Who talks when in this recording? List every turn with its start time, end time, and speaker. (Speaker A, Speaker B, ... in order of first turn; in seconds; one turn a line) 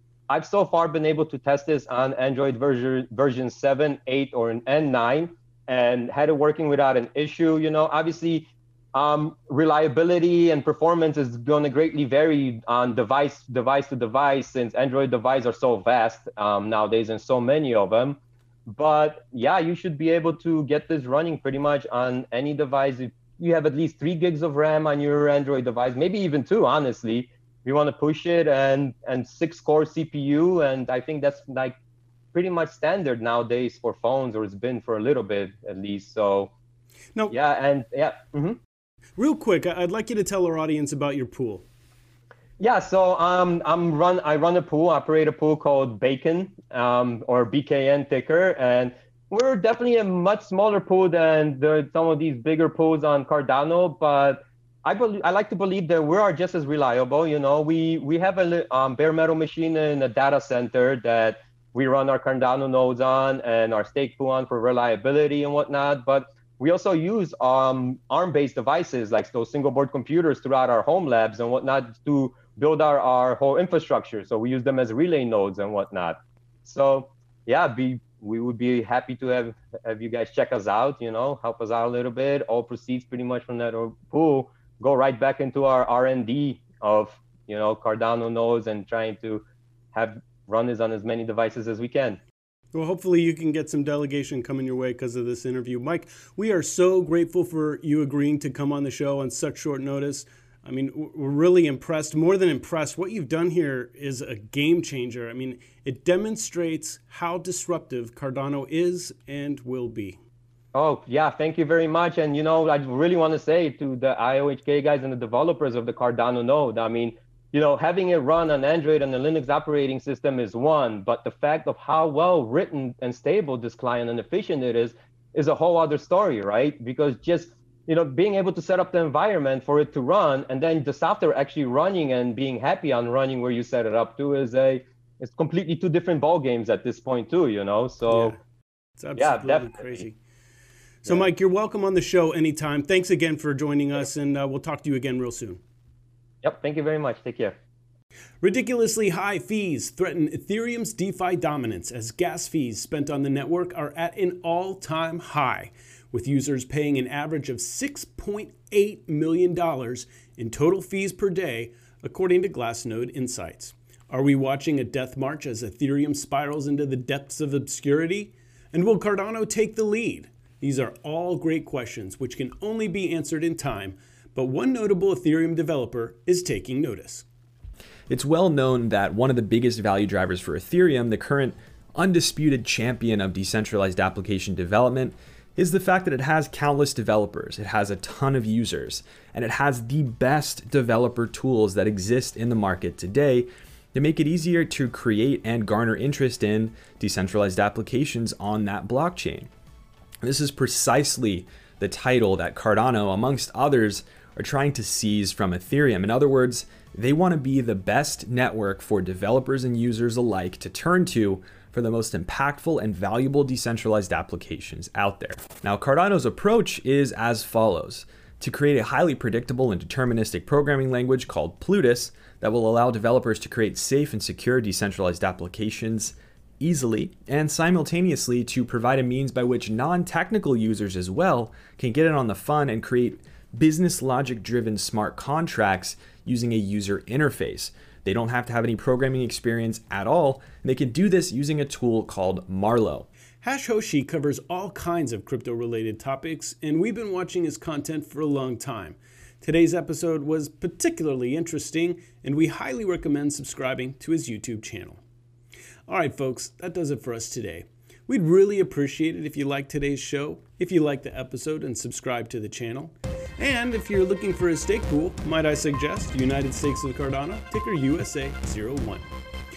Speaker A: 0.3-31.8
Speaker A: 32.3-36.5
Speaker A: 37.3-38.6
Speaker B: 39.2-41.6
Speaker A: 42.6-92.2
Speaker B: 92.7-110.2
Speaker A: 110.7-138.4
Speaker B: 138.1-138.4
Speaker B: 139.0-140.2
Speaker A: 139.2-140.1
Speaker B: 141.0-145.6
Speaker A: 146.4-147.6
Speaker B: 148.4-177.2
Speaker C: 178.1-199.5
Speaker C: 200.2-243.1
Speaker B: 243.4-255.0
Speaker B: 255.9-269.1